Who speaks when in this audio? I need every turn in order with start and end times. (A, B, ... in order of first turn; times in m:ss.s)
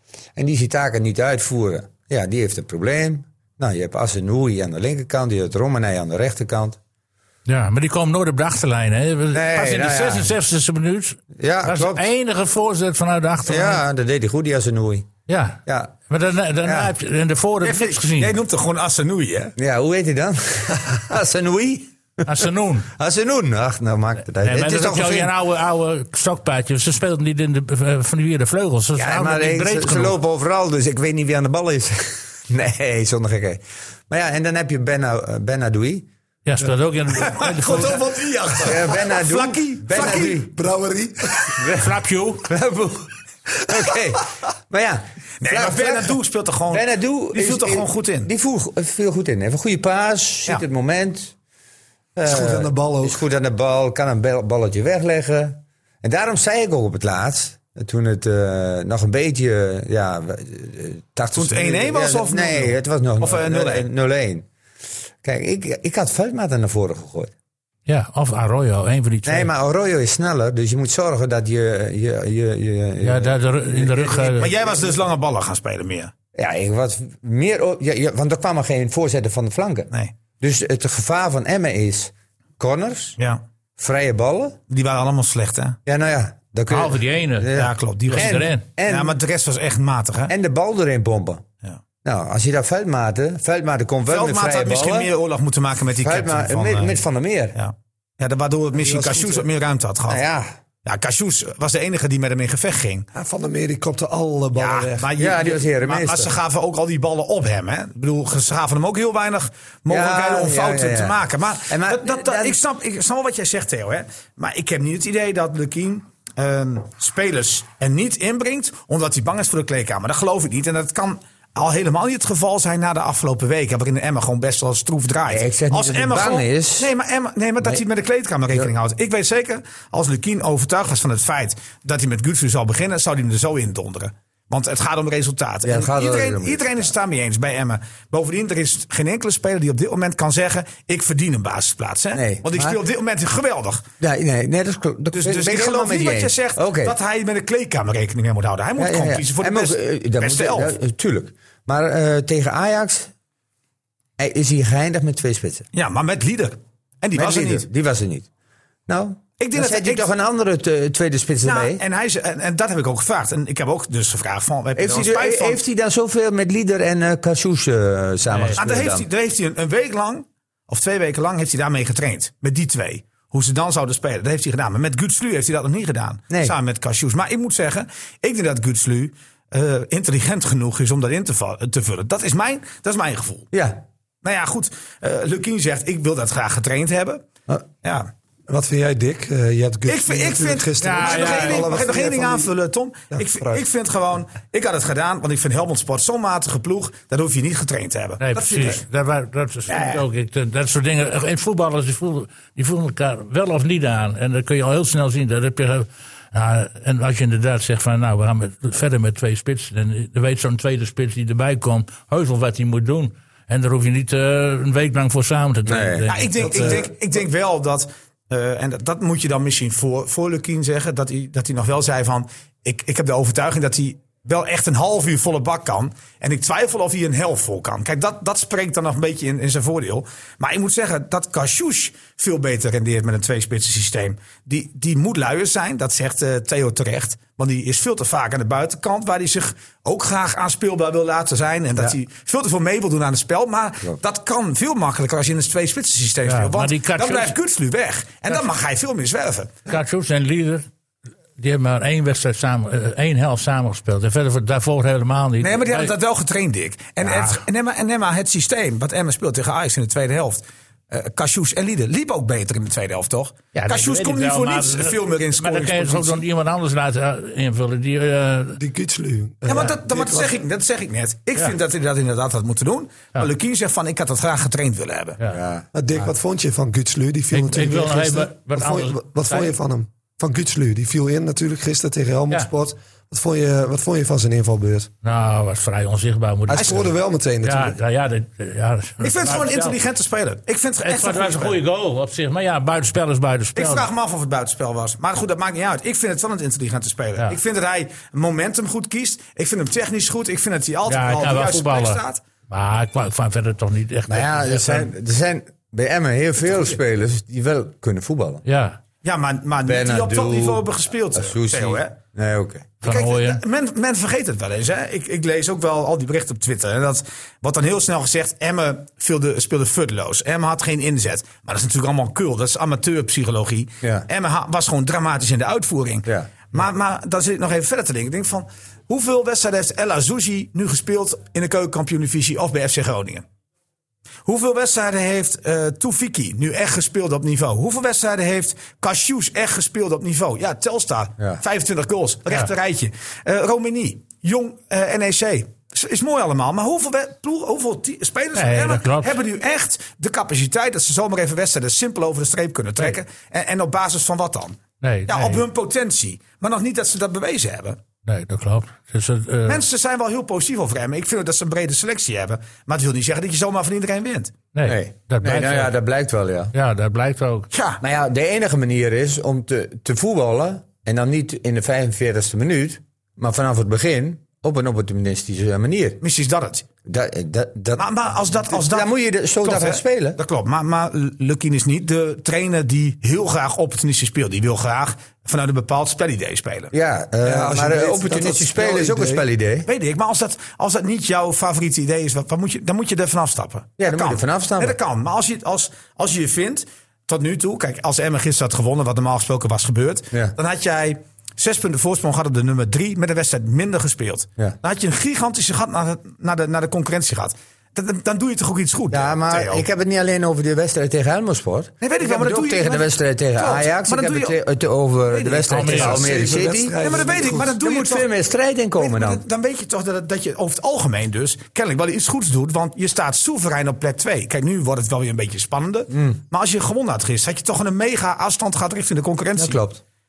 0:00.4-0:06.8 A
0:07.5-0:13.8 B
0:09.3-0:10.3 A
0:11.4-0:12.1 A
0:13.4-0:15.1 A
0:15.3-0:18.3 B
0:15.7-0:16.0 A
0:16.6-0:16.9 A
0:17.6-0:19.5 C
0:19.6-0:25.3 A
0:22.3-0:22.9 B
0:24.4-0:30.2 B
0:29.0-0:36.1 A
0:36.5-0:38.0 B
0:37.1-0:40.4 C
0:38.6-0:40.5 A
0:40.0-0:41.6 D
0:41.5-0:41.9 A
0:41.7-0:42.5 B
0:42.4-0:46.2 A
0:45.4-0:48.3 C
0:46.7-0:51.4 A
0:52.2-0:53.2 D
0:52.2-1:04.5 A
1:01.3-1:03.9 C
1:05.2-1:07.3 A
1:07.9-1:09.5 B
1:09.2-1:14.7 A
1:13.0-1:14.5 B
1:14.3-1:16.1 C
1:16.3-1:23.2 A
1:23.8-1:24.6 A
1:24.7-1:25.8 C
1:25.9-1:29.2 A
1:26.7-1:27.5 B
1:27.5-1:30.3 C
1:28.1-1:28.6 B
1:30.3-1:31.4 A
1:32.0-1:35.1 A
1:34.1-1:37.0 C
1:36.0-1:37.6 A
1:37.6-1:40.2 C
1:38.8-1:39.5 D
1:40.1-1:40.6 A
1:40.8-1:43.1 C
1:43.1-1:45.1 D
1:44.5-2:23.8 C
1:45.2-1:46.4 A
1:49.9-1:52.6 A
2:05.3-2:06.9 A
2:15.6-2:16.9 A
2:22.1-2:22.8 A
2:24.0-2:27.0 A
2:25.1-2:30.7 C
2:28.8-2:33.1 A
2:34.2-2:35.7 A
2:35.7-2:37.7 C
2:37.1-2:38.3 A
2:38.9-2:41.8 A
2:39.4-2:40.1 C
2:41.4-2:45.6 C
2:44.8-2:49.1 A
2:48.3-2:48.6 B
2:48.6-3:03.5 C
2:56.3-2:56.6 A
3:03.5-3:03.8 A
3:04.2-3:07.2 C
3:07.8-3:08.1 C
3:08.5-3:12.5 D
3:09.9-3:18.8 C
3:10.8-3:11.7 B
3:13.1-3:13.6 D
3:18.2-3:36.8 B
3:19.7-3:20.0 C
3:35.7-3:36.1 A
3:36.1-4:09.6 C
3:36.4-3:36.9 D
4:06.3-4:07.4 B
4:09.7-4:10.7 B
4:11.4-4:15.9 B
4:15.4-4:26.2 C
4:17.0-4:17.4 B
4:23.5-4:28.6 B
4:28.6-4:30.4 D
4:29.5-4:35.2 C
4:35.3-4:35.7 A
4:35.7-4:44.9 D
4:37.3-4:39.6 B
4:45.0-4:46.9 B
4:46.5-4:47.8 D
4:46.5-4:46.9 C
4:47.4-4:49.8 B
4:49.0-4:51.6 C
4:50.8-4:53.9 B
4:53.6-5:02.2 C
5:00.9-5:04.9 B
5:04.1-5:08.4 A
5:06.4-5:06.8 C
5:08.5-5:08.8 B
5:09.0-5:12.0 C
5:09.6-5:12.7 A
5:12.8-5:13.4 B
5:12.8-5:33.2 C
5:23.8-5:24.1 A
5:26.0-5:26.3 A
5:34.2-5:57.8 C
5:48.4-5:49.2 B
5:54.8-5:55.4 B
5:58.1-5:59.6 B
5:59.5-6:04.3 C
6:04.5-6:05.7 B
6:04.6-6:06.5 A
6:06.5-6:07.5 B
6:07.5-6:07.8 C
6:07.8-6:16.0 A
6:16.0-6:16.7 C
6:16.9-6:17.9 A
6:17.8-6:18.9 C
6:18.5-6:20.2 A
6:19.4-6:26.7 C
6:26.7-6:29.7 A
6:27.2-6:29.2 D
6:29.7-6:49.6 C
6:33.8-6:34.8 A
6:48.9-6:59.2 A
6:51.8-6:54.4 C
6:55.1-6:58.1 C
6:55.5-6:56.2 B
6:55.9-6:57.5 D
6:58.8-7:09.6 C
7:05.9-7:06.2 A
7:09.4-7:09.8 A